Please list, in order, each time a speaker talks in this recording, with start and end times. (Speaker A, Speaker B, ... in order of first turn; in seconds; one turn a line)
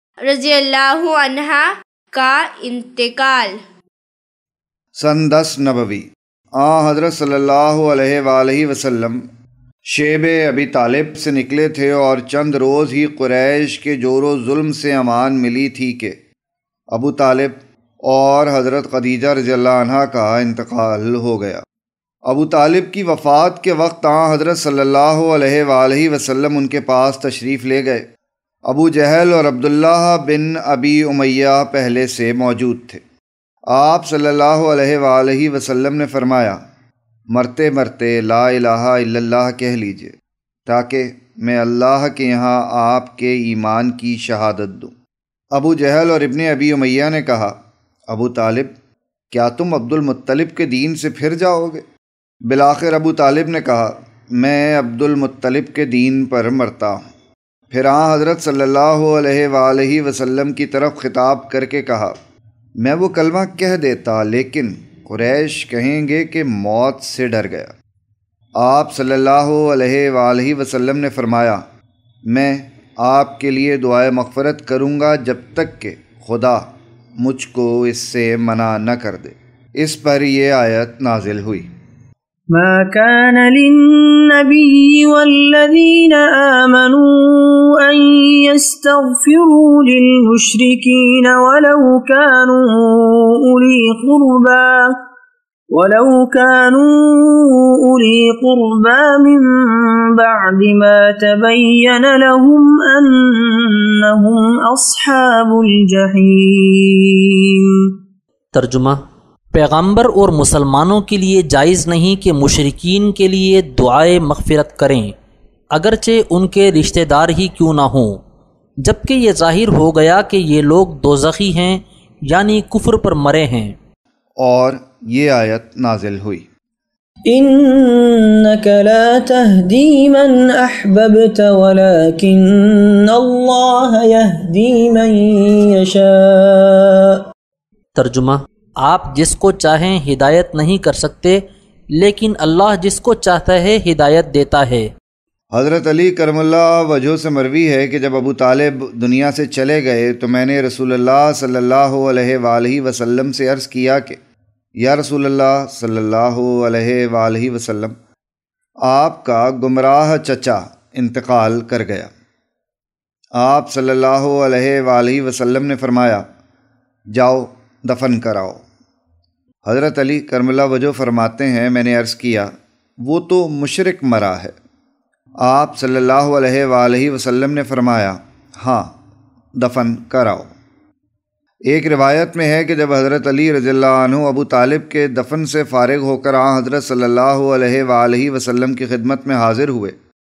Speaker A: 0.2-3.6
Speaker B: 5.0-9.2
Speaker B: 9.9-16.2
Speaker B: 16.9-21.6
Speaker B: 22.3-28.1
Speaker B: 28.7-33.0
Speaker B: 33.7-36.6
Speaker B: 37.3-40.1
Speaker B: 40.7-44.9
Speaker B: 45.5-47.5
Speaker B: 48.1-48.7
Speaker B: 49.3-51.8
Speaker B: 52.5-57.0
Speaker B: 57.7-62.1
Speaker B: 62.8-67.8
Speaker B: 68.6-71.6
Speaker B: 72.3-76.7
Speaker B: 77.2-81.7
Speaker C: 82.5-94.9
Speaker C: 95.7-107.9
Speaker D: 108.5-109.0
Speaker D: 109.5-115.2
Speaker D: 115.7-118.2
Speaker D: 118.8-123.8
Speaker B: 124.4-126.5
Speaker C: 127.3-137.2
Speaker D: 137.9-141.4
Speaker D: 142.0-144.9
Speaker B: 145.5-154.2
Speaker B: 154.8-157.9
Speaker B: 158.8-162.1
Speaker B: 163.4-166.2
Speaker B: 167.1-168.6
Speaker B: 169.7-172.5
Speaker B: 173.0-174.5
Speaker B: 175.4-179.0
Speaker B: 179.6-180.5
Speaker B: 181.7-190.0